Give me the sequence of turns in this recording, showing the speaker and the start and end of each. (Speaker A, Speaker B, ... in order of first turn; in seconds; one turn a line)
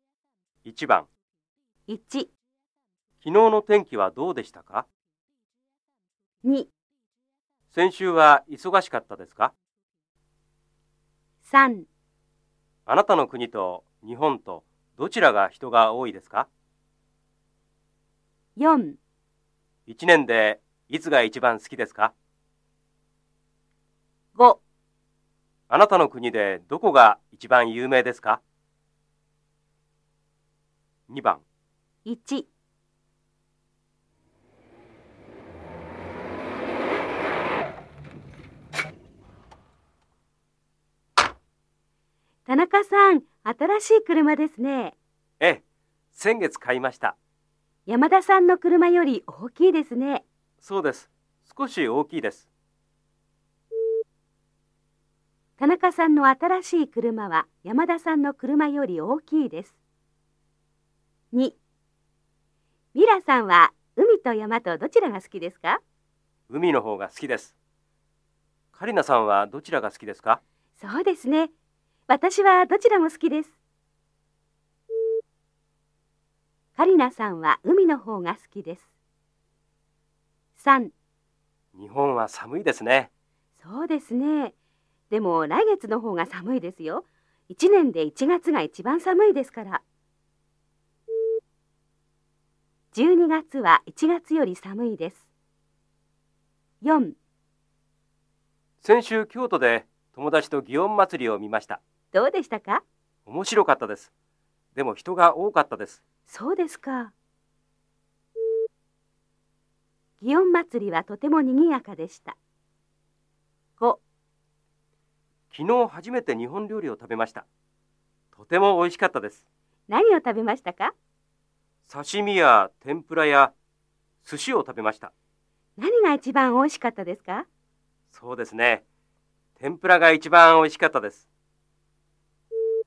Speaker A: 0.6-1.1
Speaker B: 1.9-2.3
Speaker A: 3.2-4.9
Speaker B: 6.4-6.7
Speaker A: 7.7-9.5
Speaker B: 11.4-11.9
Speaker A: 12.9-16.5
Speaker B: 18.6-19.0
Speaker A: 19.9-22.1
Speaker B: 24.4-24.6
Speaker A: 25.7-28.4
Speaker A: 31.1-31.4
Speaker B: 32.0-32.5
Speaker B: 42.5-45.0
Speaker A: 45.4-47.2
Speaker B: 47.9-50.2
Speaker A: 50.6-52.5
Speaker B: 55.6-59.8
Speaker B: 61.3-61.6
Speaker B: 62.9-65.8
Speaker A: 66.5-67.6
Speaker A: 68.7-70.4
Speaker B: 70.8-71.5
Speaker B: 72.1-73.6
Speaker B: 76.8-78.9
Speaker B: 80.6-80.9
Speaker A: 81.7-83.1
Speaker B: 83.6-84.5
Speaker B: 85.1-89.8
Speaker B: 92.9-95.3
Speaker B: 96.8-97.2
Speaker A: 98.8-101.8
Speaker B: 102.1-102.8
Speaker A: 103.3-104.1
Speaker A: 104.8-106.0
Speaker B: 106.3-107.1
Speaker B: 110.2-112.4
Speaker A: 115.5-117.5
Speaker A: 118.3-119.5
Speaker B: 119.9-120.9
Speaker A: 121.9-123.5
Speaker A: 124.2-125.1
Speaker B: 125.8-127.5
Speaker A: 128.1-128.8
Speaker A: 129.6-131.3